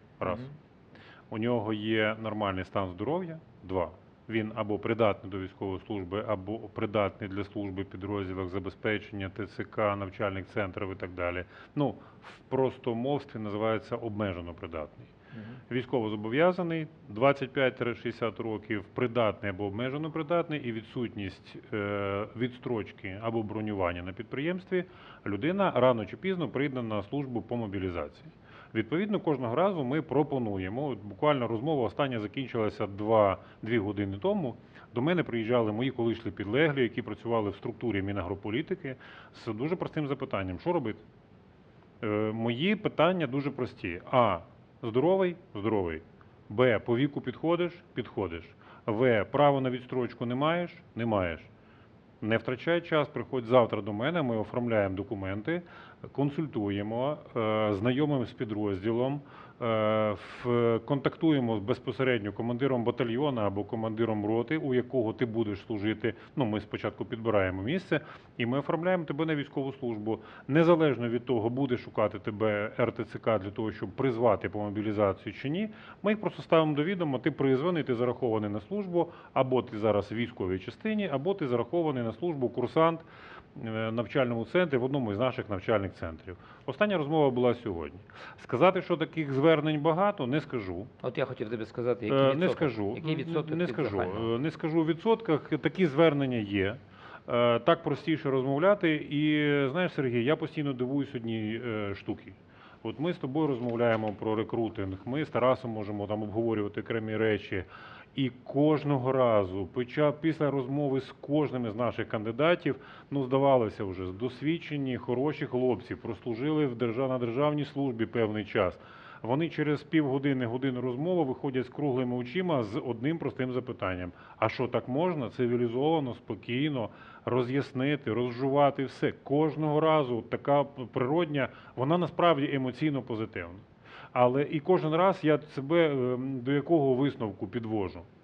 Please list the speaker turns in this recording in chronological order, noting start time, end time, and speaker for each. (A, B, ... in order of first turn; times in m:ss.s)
0:00.2-0:00.5 A
0:00.2-0:00.5 B
0:01.3-0:15.1 A
0:15.3-0:15.6 B
0:15.7-0:41.0 A
0:42.0-0:51.5 A
0:52.2-1:30.9 A
1:31.0-1:34.3 B
1:32.1-2:18.1 A